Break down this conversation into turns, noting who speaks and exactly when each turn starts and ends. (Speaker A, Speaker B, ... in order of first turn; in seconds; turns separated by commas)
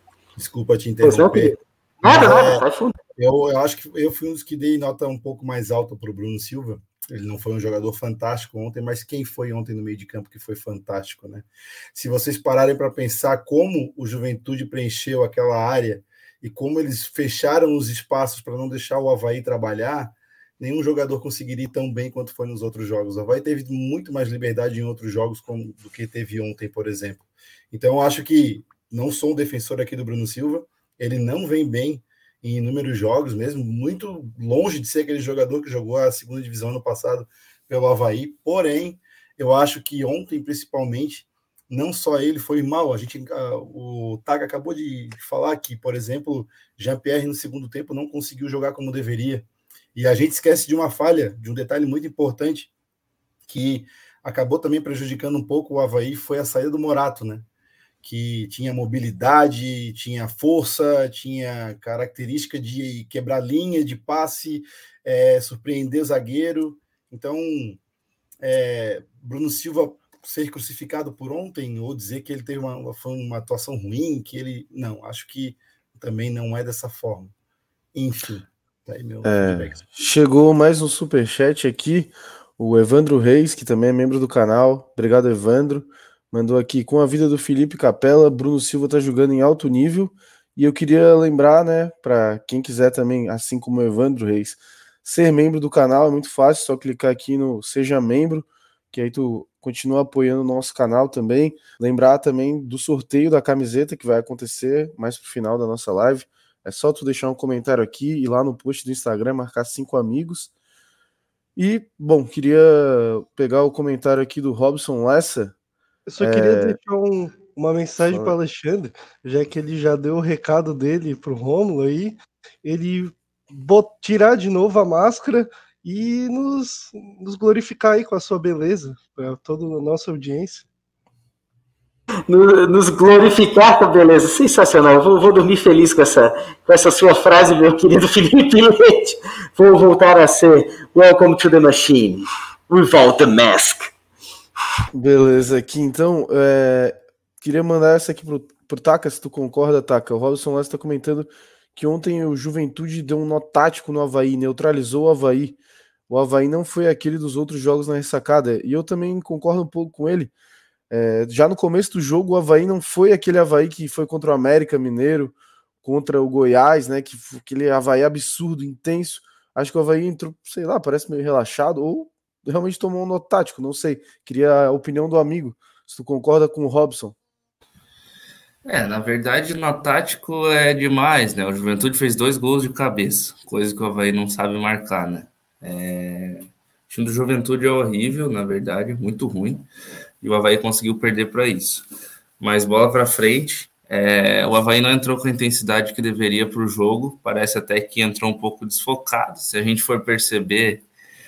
Speaker A: 0.4-1.6, Speaker B: 1.0-3.0, Speaker A: 2.1-2.6, Speaker A: 3.2-52.7, Speaker A: 53.5-57.5, Speaker A: 58.0-67.8, Speaker A: 68.4-77.3, Speaker A: 77.9-79.8, Speaker C: 79.2-110.5, Speaker C: 111.6-115.5, Speaker D: 116.1-130.7, Speaker C: 116.2-116.8, Speaker C: 118.0-118.4, Speaker B: 132.3-143.9, Speaker C: 144.9-155.6, Speaker C: 156.1-160.3, Speaker C: 160.9-177.2, Speaker E: 178.7-189.7, Speaker E: 190.2-191.8, Speaker E: 192.4-200.8